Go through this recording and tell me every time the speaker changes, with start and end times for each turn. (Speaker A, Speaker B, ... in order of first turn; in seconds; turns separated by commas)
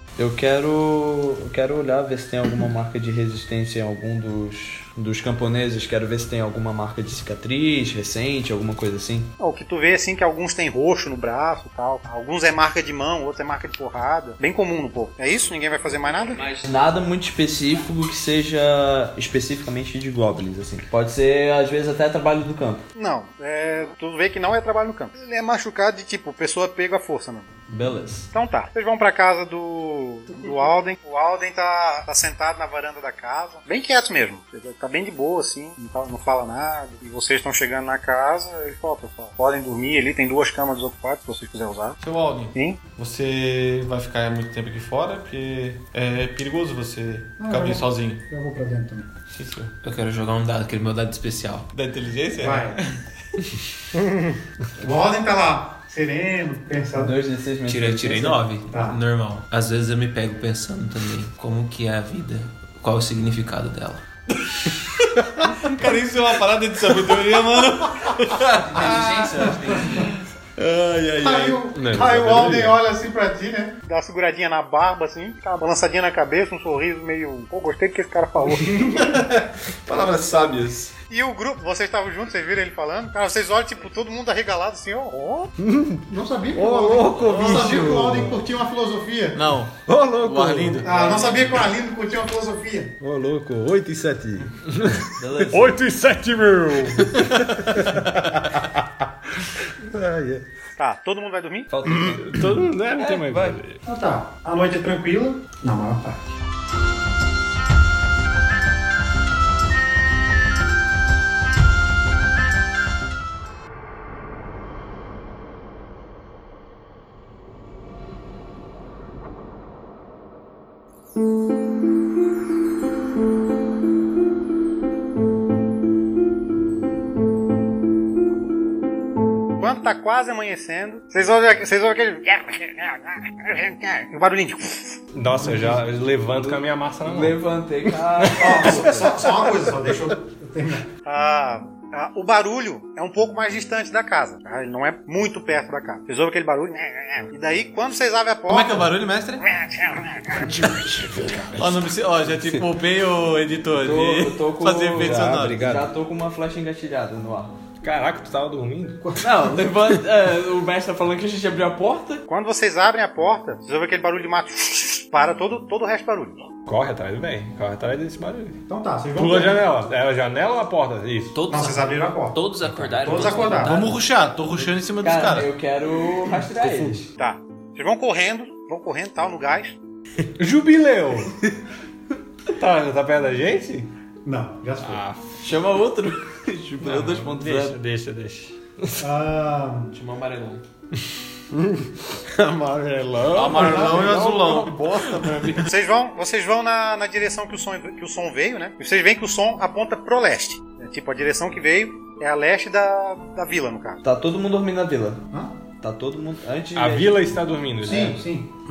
Speaker A: 0.2-9.3, Speaker B: 9.4-16.5, Speaker A: 16.6-22.8, Speaker B: 22.9-27.5, Speaker A: 27.7-28.3, Speaker B: 28.3-42.0, Speaker C: 42.0-48.2, Speaker B: 42.5-42.8, Speaker D: 47.4-49.1, Speaker C: 49.3-49.7, Speaker E: 49.8-51.7, Speaker C: 51.7-53.0, Speaker D: 52.4-52.8, Speaker D: 54.8-57.2, Speaker A: 57.0-58.5, Speaker E: 57.7-64.0, Speaker D: 58.7-59.0, Speaker C: 65.1-69.2, Speaker E: 68.7-70.0, Speaker A: 68.7-69.8, Speaker D: 69.2-70.0, Speaker C: 70.6-71.6, Speaker D: 71.2-73.8, Speaker F: 71.7-72.8, Speaker B: 73.8-79.1, Speaker C: 79.9-80.9, Speaker G: 80.2-80.6, Speaker B: 81.1-85.5, Speaker G: 85.6-86.0, Speaker D: 86.1-89.4, Speaker G: 86.5-88.4, Speaker C: 87.2-88.1, Speaker C: 89.3-90.9, Speaker G: 89.8-90.9, Speaker D: 90.8-93.0, Speaker B: 90.9-91.5, Speaker G: 93.0-94.5, Speaker F: 94.7-97.3, Speaker A: 95.2-95.8, Speaker G: 99.8-100.5, Speaker B: 100.8-101.7, Speaker A: 101.7-103.6, Speaker F: 102.0-103.8, Speaker D: 103.8-106.4, Speaker B: 129.6-135.0, Speaker F: 135.1-137.4, Speaker D: 135.4-135.8, Speaker A: 136.3-139.1, Speaker D: 138.4-140.9, Speaker B: 141.1-150.7, Speaker C: 148.5-149.4, Speaker F: 150.7-151.4, Speaker C: 151.5-155.9, Speaker A: 153.7-157.6, Speaker F: 155.0-155.4, Speaker G: 155.1-155.5, Speaker F: 157.8-159.1, Speaker A: 159.2-162.2, Speaker B: 162.3-166.5, Speaker F: 166.7-168.6, Speaker D: 168.7-169.7, Speaker F: 169.2-171.4, Speaker E: 171.3-174.1, Speaker D: 171.5-173.7, Speaker C: 173.7-175.5, Speaker A: 175.0-177.1, Speaker B: 177.2-179.8, Speaker F: 180.4-181.3, Speaker F: 182.6-183.9, Speaker D: 184.2-185.1, Speaker F: 184.8-185.5, Speaker A: 185.4-187.8, Speaker F: 186.8-189.1, Speaker D: 189.0-189.9, Speaker E: 189.9-190.6, Speaker G: 192.3-194.8, Speaker C: 193.3-195.7, Speaker D: 193.4-194.2, Speaker B: 195.7-204.0, Speaker A: 204.0-205.2, Speaker A: 205.8-207.4, Speaker F: 206.7-208.2, Speaker D: 207.8-208.5